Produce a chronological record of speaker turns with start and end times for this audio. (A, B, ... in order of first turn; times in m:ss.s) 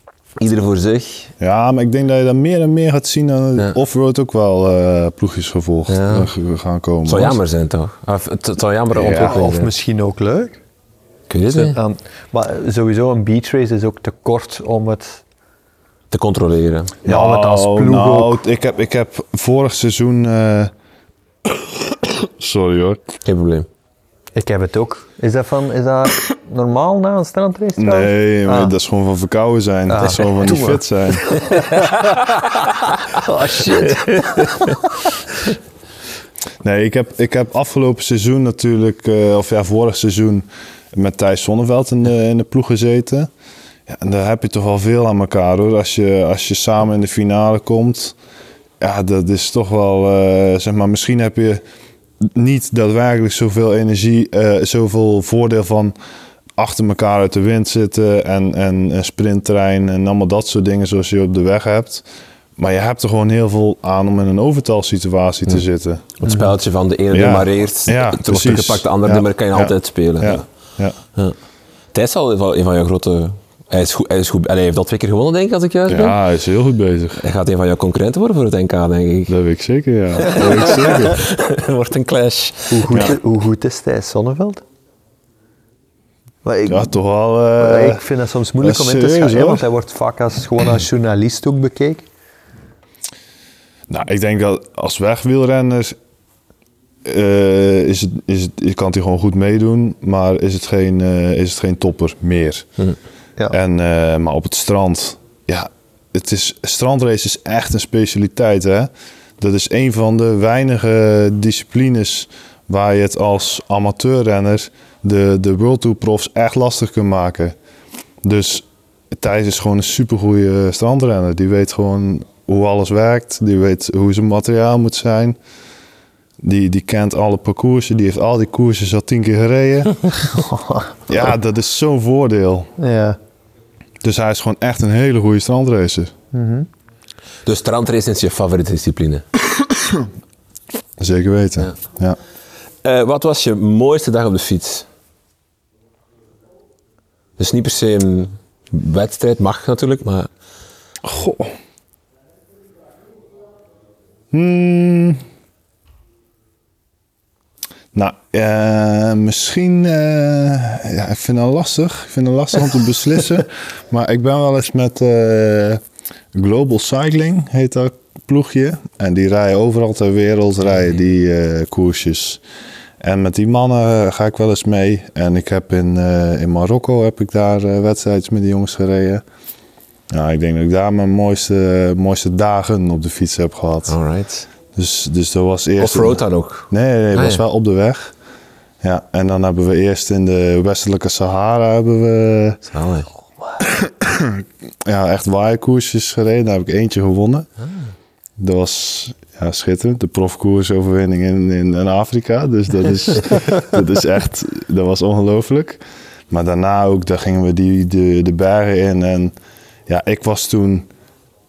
0:00.4-0:01.3 A
0:01.4-0:07.4 B
0:05.9-0:06.3 A
0:07.1-0:09.7 A
0:08.9-0:09.4 B
0:09.0-0:10.6 C
0:11.3-0:11.8 A
0:11.6-0:15.2 C
0:16.1-0:17.0 A
0:17.0-0:20.7 B
0:17.0-0:18.4 C
0:21.5-0:23.1 B
0:23.2-0:23.7 A
0:24.4-0:28.7 C
0:27.8-0:31.3 B
0:29.9-0:32.2 C
0:31.5-0:32.3 A
0:33.1-0:35.1 C
0:34.0-0:34.8 A
0:36.6-0:43.3 B
0:43.9-0:48.2 B
0:48.8-0:51.6 B
0:52.2-0:55.9 B
0:56.6-1:02.0 B
1:02.6-1:06.2 B
1:06.2-1:10.5 A
1:07.1-1:11.0 B
1:11.9-1:16.2 A
1:15.9-1:17.2 B
1:17.2-1:19.4 A
1:19.3-1:21.2 B
1:20.2-1:23.1 A
1:22.7-1:24.6 C
1:26.4-1:26.9 C
1:26.7-1:28.0 B
1:27.6-1:32.1 C
1:28.6-1:29.6 B
1:33.9-1:36.0 B
1:37.0-1:42.8 B
1:43.5-1:57.6 B
1:58.2-2:05.4 B
2:06.4-2:10.0 B
2:10.4-2:10.9 C
2:11.1-2:12.7 B
2:12.8-2:13.2 C
2:14.0-2:16.1 B
2:16.3-2:16.7 C
2:17.5-2:19.2 A
2:21.0-2:22.2 B
2:22.8-2:24.9 A
2:27.4-2:30.3 A
2:31.0-2:31.5 B
2:34.3-2:35.2 B
2:37.9-2:45.8 B
2:46.3-2:52.4 B
2:53.0-2:59.2 B
3:00.1-3:04.0 B
3:03.9-3:04.5 A
3:04.8-3:08.1 B
3:05.8-3:07.4 A
3:08.8-3:12.6 B
3:12.7-3:13.1 A
3:13.6-3:17.5 B
3:18.4-3:29.3 B
3:29.9-3:30.9 B